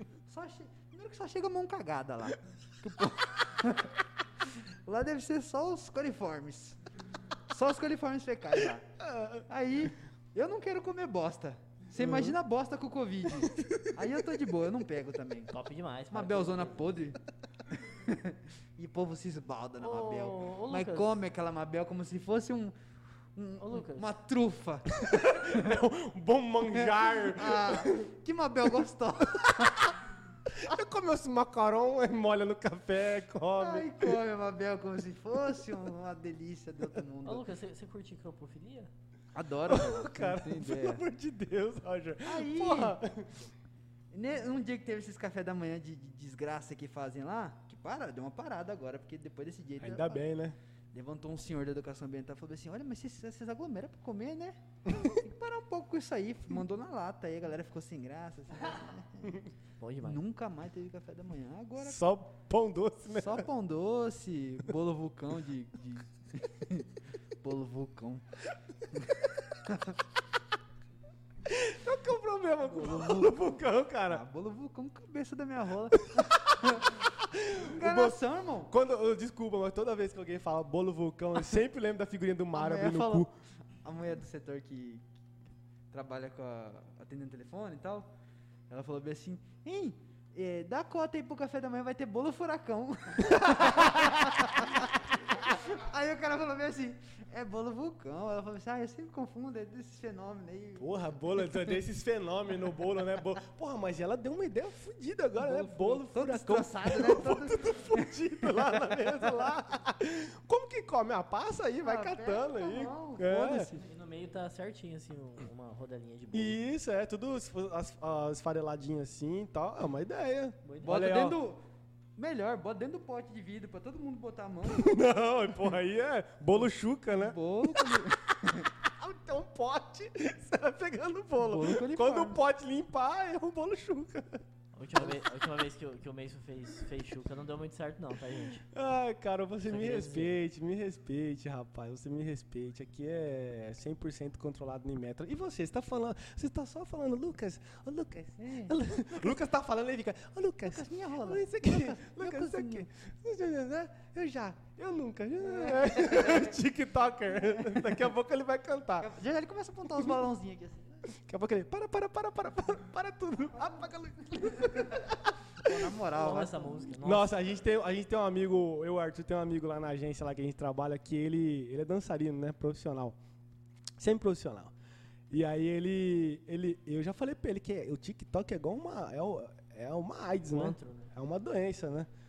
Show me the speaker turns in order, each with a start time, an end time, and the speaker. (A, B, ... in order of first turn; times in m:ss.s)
0:00.3-0:04.0 A
0:04.8-0:06.8 A
0:07.5-0:08.9 A
0:08.6-0:09.4 B
0:09.5-0:15.5 A
0:12.0-0:12.4 B
0:13.4-0:14.0 B
0:15.5-0:16.8 C
0:16.1-0:17.2 A
0:17.9-0:22.7 A
0:19.8-0:21.1 C
0:23.4-0:25.8 A
0:23.6-0:24.1 C
0:24.9-0:28.1 B
0:26.7-0:29.9 A
0:29.2-0:29.9 B
0:30.5-0:34.2 B
0:33.6-0:37.4 A
0:37.2-0:38.9 C
0:39.3-0:41.0 A
0:39.7-0:43.4 B
0:42.2-0:43.0 A
0:44.1-0:50.2 A
0:49.8-0:50.6 B
0:50.9-0:59.4 A
0:54.9-0:55.1 B
0:59.8-1:00.2 C
1:00.0-1:02.0 A
1:01.8-1:03.4 B
1:03.1-1:08.2 A
1:08.9-1:10.0 A
1:11.4-1:14.2 B
1:12.8-1:13.3 A
1:14.1-1:18.7 A
1:16.1-1:23.3 B
1:22.5-1:25.0 A
1:25.9-1:28.1 A
1:28.7-1:41.7 A
1:33.3-1:34.8 B
1:40.8-1:53.7 B
1:45.4-1:49.5 A
1:51.8-1:53.9 A
1:53.8-1:56.6 C
1:56.3-2:01.4 B
2:00.6-2:01.0 C
2:00.8-2:01.6 A
2:02.2-2:05.0 A
2:04.6-2:08.0 B
2:07.1-2:08.7 A
2:08.8-2:14.4 B
2:11.4-2:12.4 A
2:14.7-2:18.6 C
2:18.6-2:39.1 B
2:19.6-2:20.4 C
2:28.4-2:29.3 A
2:30.6-2:32.9 A
2:35.4-2:36.6 A
2:37.3-2:38.0 A
2:39.0-2:41.0 A
2:41.1-2:45.9 B
2:44.6-2:45.0 A
2:45.6-2:46.9 A
2:46.1-2:47.3 C
2:47.0-2:53.2 B
2:54.0-2:54.7 B
2:55.3-3:02.1 B
3:00.5-3:01.1 C